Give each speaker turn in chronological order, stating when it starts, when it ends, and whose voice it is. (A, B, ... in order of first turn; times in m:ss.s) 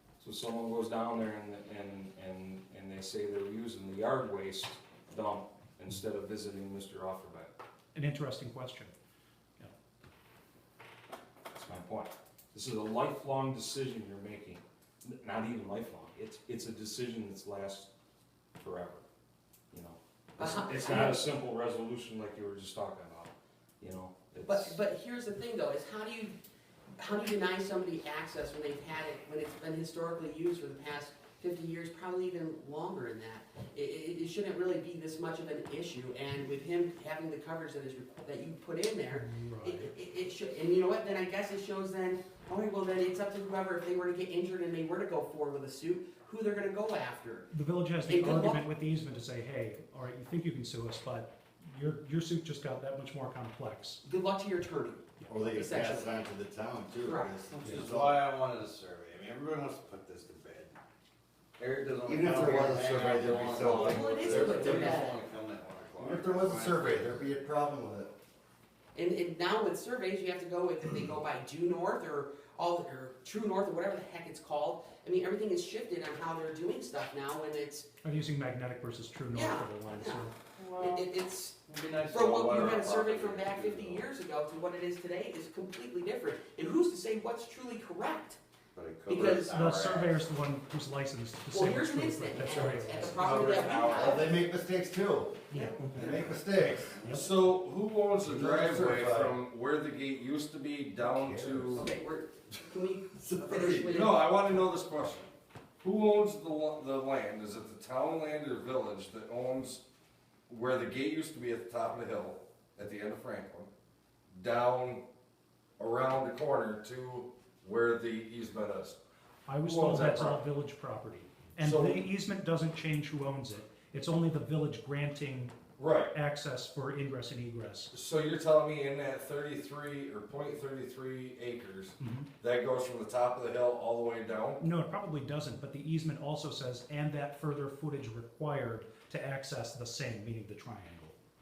0:00.2-0:07.5 A
0:08.0-0:08.9 B
0:11.5-0:17.9 A
0:18.6-0:19.0 A
0:19.7-0:24.8 A
0:20.4-0:21.2 C
0:24.4-0:26.4 C
0:27.0-0:47.5 C
0:39.1-0:39.9 B
0:47.5-0:54.0 B
0:48.1-0:48.6 C
0:54.0-0:56.1 C
0:55.3-0:58.2 D
0:57.0-0:57.3 C
0:57.5-1:00.8 E
1:01.6-1:07.2 E
1:02.0-1:05.1 D
1:02.7-1:04.0 F
1:03.6-1:05.2 C
1:06.0-1:08.1 D
1:09.0-1:17.9 C
1:18.0-1:20.3 B
1:19.3-1:28.4 C
1:20.6-1:21.0 E
1:21.7-1:24.1 E
1:28.8-1:30.2 E
1:29.1-1:29.5 C
1:29.4-1:33.3 B
1:31.5-1:34.4 C
1:32.5-1:34.2 E
1:33.9-1:37.0 D
1:35.5-1:36.3 C
1:35.5-1:35.8 B
1:36.9-1:37.2 E
1:37.1-1:41.9 F
1:38.2-1:39.4 D
1:41.0-1:41.9 D
1:41.8-1:44.2 C
1:43.3-1:43.7 D
1:43.5-1:45.3 F
1:45.8-1:49.8 F
1:50.5-1:53.7 F
1:54.3-1:55.0 F
1:55.8-1:59.0 F
1:59.5-2:05.6 B
1:59.6-2:00.4 F
2:01.6-2:02.0 F
2:05.8-2:06.1 F
2:06.1-2:07.9 B
2:07.9-2:14.6 F
2:12.0-2:12.3 B
2:14.6-2:21.2 B